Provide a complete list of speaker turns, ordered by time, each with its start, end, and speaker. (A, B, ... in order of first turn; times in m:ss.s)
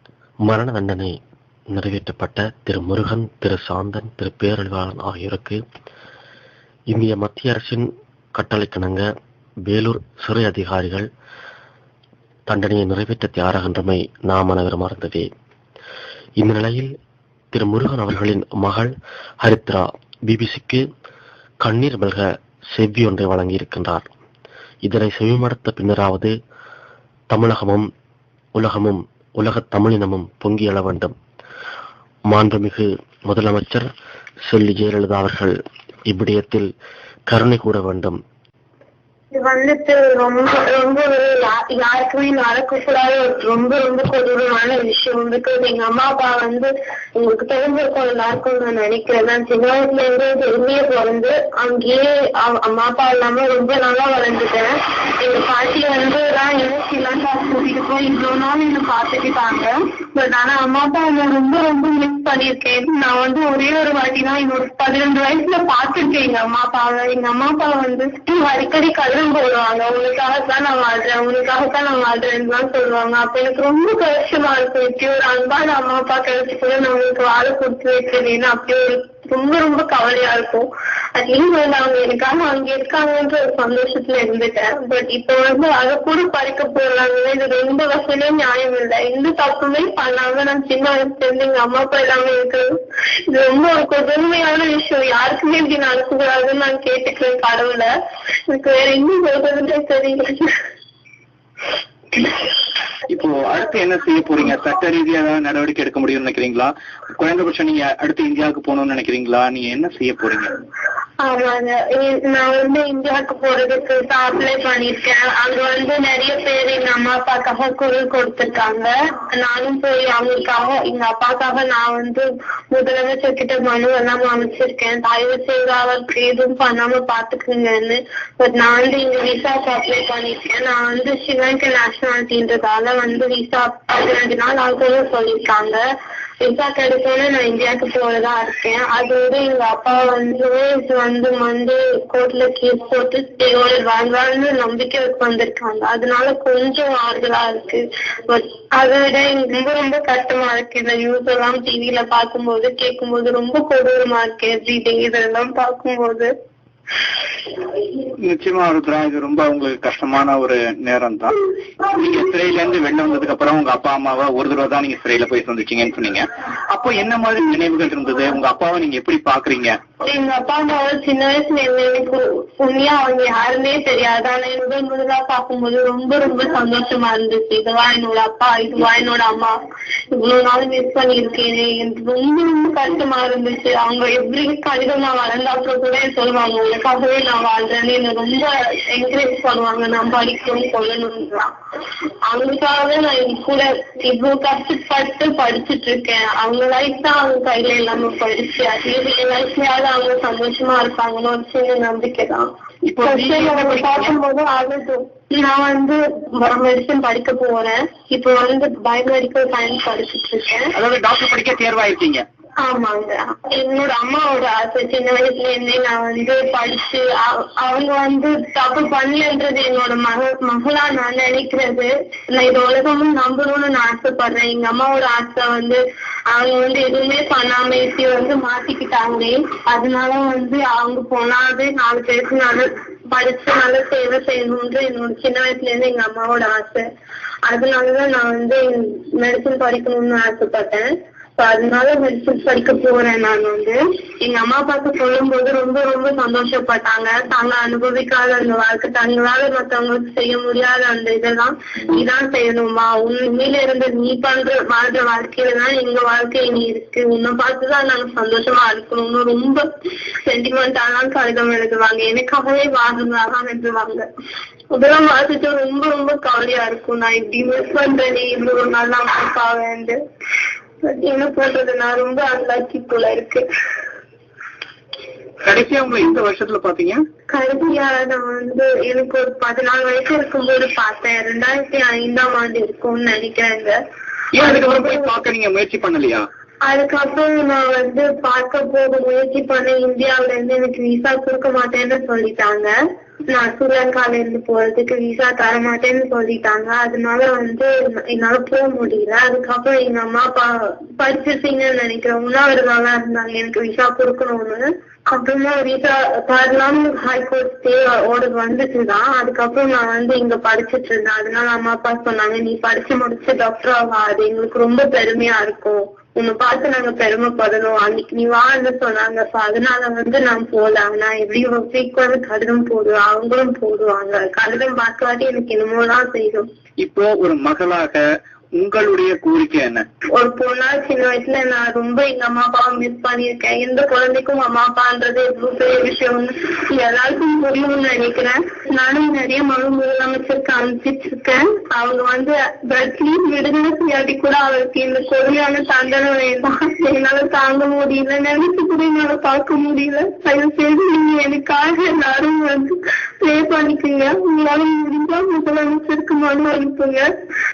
0:00.5-0:01.2 A
0:01.7-0:05.6 A
0:06.9-0:09.1 A
0:09.7-0:11.1 A
0:12.5-0:15.3 A
0:16.4-0:16.9 A
0:17.5-0:20.8 A
0:21.6-0:24.1 A
0:24.8-0:26.3 A
0:27.3-0:27.9 A
0:28.6-0:31.2 A
0:32.3-0:33.9 A
0:34.5-0:35.6 A
0:36.1-0:36.7 A
0:37.3-0:38.2 A
0:39.3-1:32.7 B
1:33.3-1:37.9 B
1:38.5-1:40.5 B
1:43.1-1:50.5 C
1:51.2-2:15.8 B
2:16.4-2:36.3 B
2:38.2-2:49.8 C
2:50.0-2:59.6 B
3:00.1-3:11.5 B
3:12.3-3:22.5 B
3:22.9-3:24.2 C
3:23.0-3:30.7 B
3:30.8-3:32.2 C
3:32.6-3:56.9 B
3:57.5-4:19.6 B
4:20.3-4:24.1 B
4:24.7-4:30.0 B
4:30.8-4:33.4 B
4:35.4-4:37.0 C
4:37.3-4:43.8 B
4:44.4-4:46.2 C
4:44.4-4:45.1 B
4:46.7-4:52.7 B
4:53.3-5:26.5 B
5:26.8-5:28.0 C
5:28.6-5:29.8 C
5:30.1-5:57.1 B